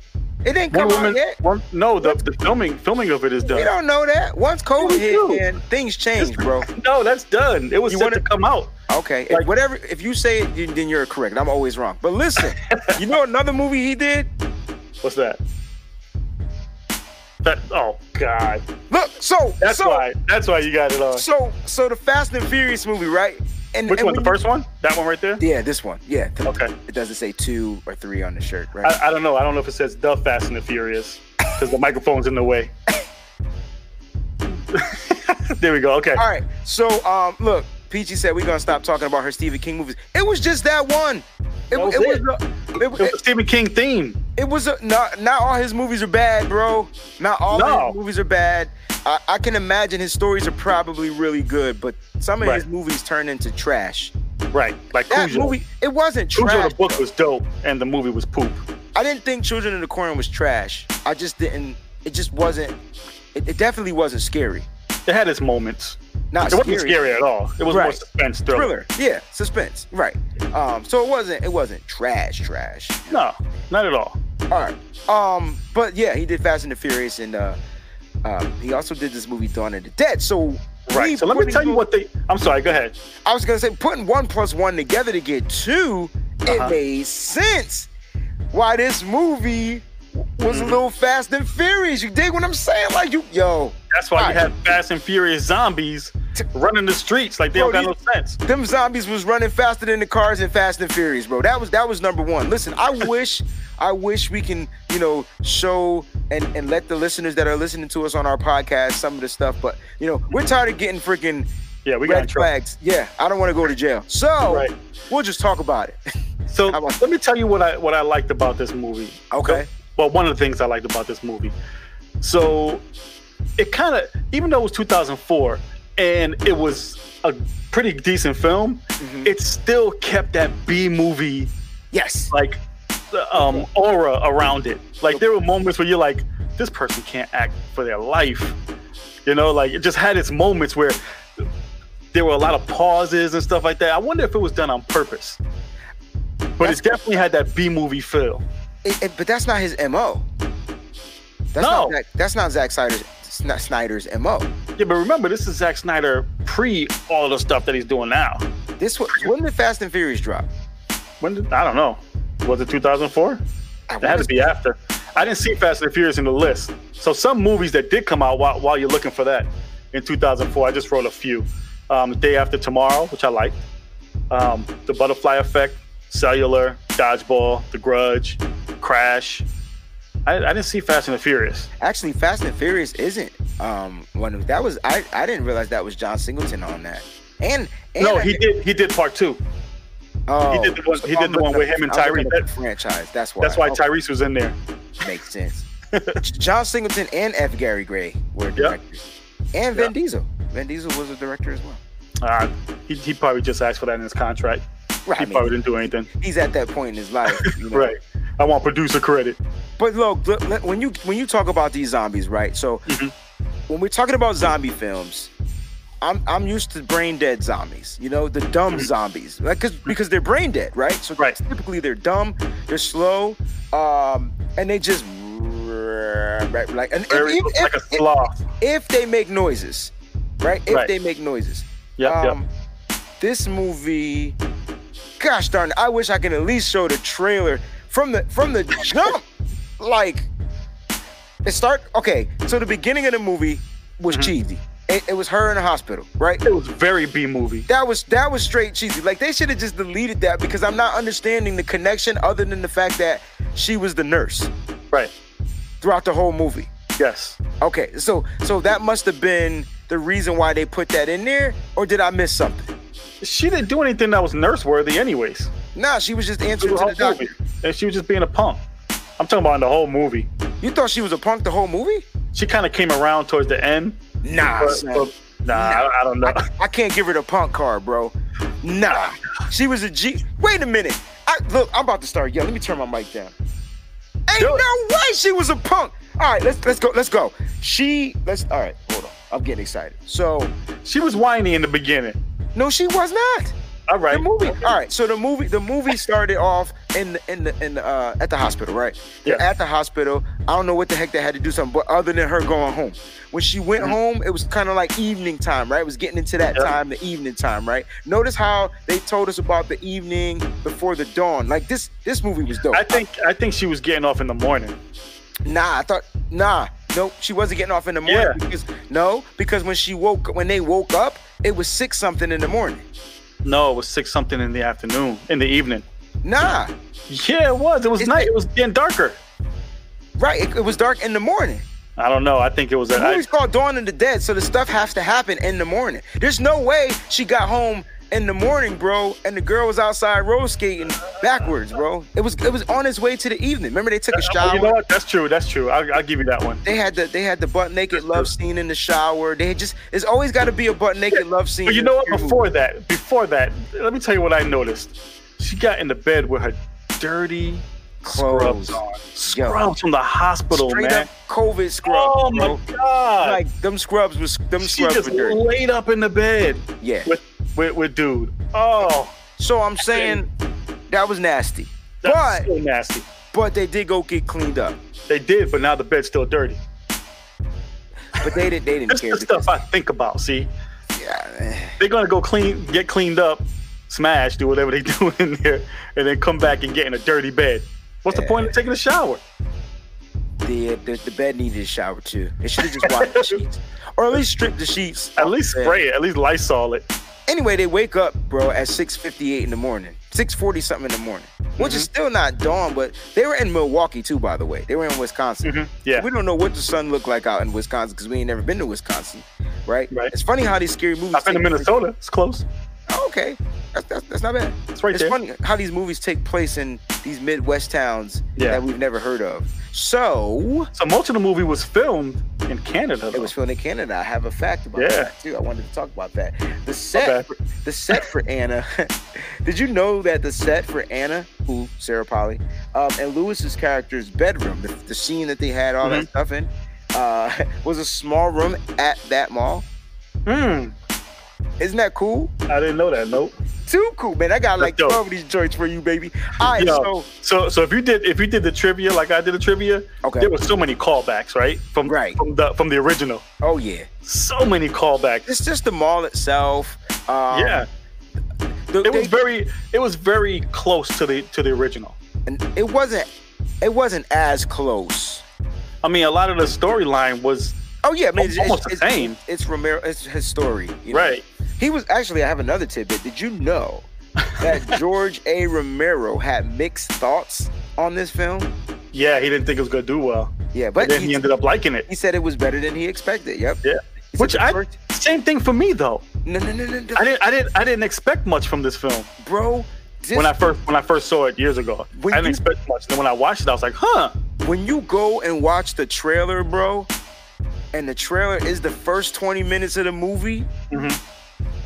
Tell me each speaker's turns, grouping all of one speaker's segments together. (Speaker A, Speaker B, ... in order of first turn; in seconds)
Speaker A: 0.5-1.4, 3.5-6.7, 7.9-8.2, 8.9-14.3, 18.9-20.1, 21.1-24.4, 25.4-28.9, 36.1-43.2, 44.4-54.1, 55.1-57.0, 59.0-62.8, 63.4-64.7, 66.3-67.1, 67.7-73.2, 74.5-77.6, 78.2-81.8, 83.3-87.9, 88.5-94.4, 97.5-111.5, 112.0-116.0, 116.7-117.1, 119.3-119.7, 129.0-129.3, 131.9-132.3, 133.3-133.7, 146.6-147.1, 148.8-150.3, 151.5-154.5, 158.8-160.5, 163.9-164.6, 181.8-188.4, 190.3-193.8, 195.0-195.7, 196.2-201.8, 205.1-205.6, 206.1-207.9, 209.8-212.8, 213.7-215.3, 216.0-228.0, 228.6-232.5, 233.2-234.4, 235.2-239.3, 239.8-240.3, 241.4-246.4, 247.7-254.5, 255.8-256.7, 257.6-262.7, 265.8-267.3, 270.6-272.1, 274.2-283.3, 284.3-290.5, 292.6-293.6, 294.1-313.0, 315.5-322.9, 326.2-326.7, 328.0-328.3, 330.2-331.6, 332.9-344.8, 346.6-352.5, 358.0-359.6, 360.5-362.6, 363.2-365.4, 366.8-367.1, 369.4-370.3, 370.9-372.5, 373.3-374.8, 378.1-379.6, 380.9-381.8, 388.1-388.5, 390.4-395.8, 397.3-411.7, 412.9-420.7, 423.1-439.7, 441.6-442.3, 443.7-447.1, 450.0-450.3, 451.9-452.2, 453.4-453.9, 455.3-457.7, 458.7-459.1, 462.3-463.1, 463.6-465.2, 467.8-478.5, 480.5-481.2, 481.9-483.6, 484.1-484.8, 486.2-487.1, 489.2-490.3, 491.9-492.4, 494.4-496.9, 497.7-500.5
Speaker B: 0.7-3.7, 4.8-5.4, 6.2-8.7, 12.4-13.0, 15.0-15.4, 17.4-18.6, 19.6-21.2, 23.9-25.4, 26.5-26.7, 28.8-32.7, 34.5-36.2, 41.7-42.2, 42.9-44.2, 47.5-48.0, 54.5-55.5, 56.3-58.6, 65.1-66.0, 66.5-68.7, 73.1-74.2, 80.9-83.0, 86.5-86.8, 90.5-90.8, 93.9-98.4, 111.8-112.5, 114.5-114.7, 116.5-121.6, 122.2-122.8, 123.6-131.5, 132.3-138.6, 139.3-141.0, 142.1-145.4, 146.6-148.4, 151.6-152.0, 154.8-158.4, 161.2-163.4, 164.0-173.6, 174.3-179.5, 180.3-181.7, 188.0-189.4, 190.5-192.5, 193.4-194.6, 195.9-196.2, 202.2-204.7, 205.2-206.1, 207.4-209.4, 212.9-213.1, 227.1-228.4, 232.0-232.4, 246.4-247.7, 257.0-257.4, 263.2-265.5, 266.6-268.6, 269.2-270.3, 272.3-274.0, 274.6-276.4, 284.4-284.6, 290.8-292.2, 293.9-294.8, 312.7-314.8, 318.1-318.4, 323.4-325.9, 327.1-329.2, 332.0-333.2, 344.1-346.6, 347.9-348.3, 351.1-361.1, 361.9-363.4, 364.6-369.2, 369.8-370.2, 372.0-373.1, 375.1-376.6, 378.9-380.5, 381.8-389.2, 392.6-393.4, 395.2-396.9, 401.6-401.9, 405.4-406.1, 411.1-412.5, 414.8-415.2, 418.4-418.6, 420.8-423.3, 424.8-425.1, 426.9-427.3, 440.3-440.8, 442.5-443.3, 444.6-445.0, 446.6-453.2, 454.1-455.3, 457.3-457.7, 458.8-462.0, 465.8-467.6, 468.2-469.2, 470.9-471.2, 474.2-474.8, 478.9-481.9, 483.6-486.1, 487.0-489.1, 490.1-494.1, 500.7-501.0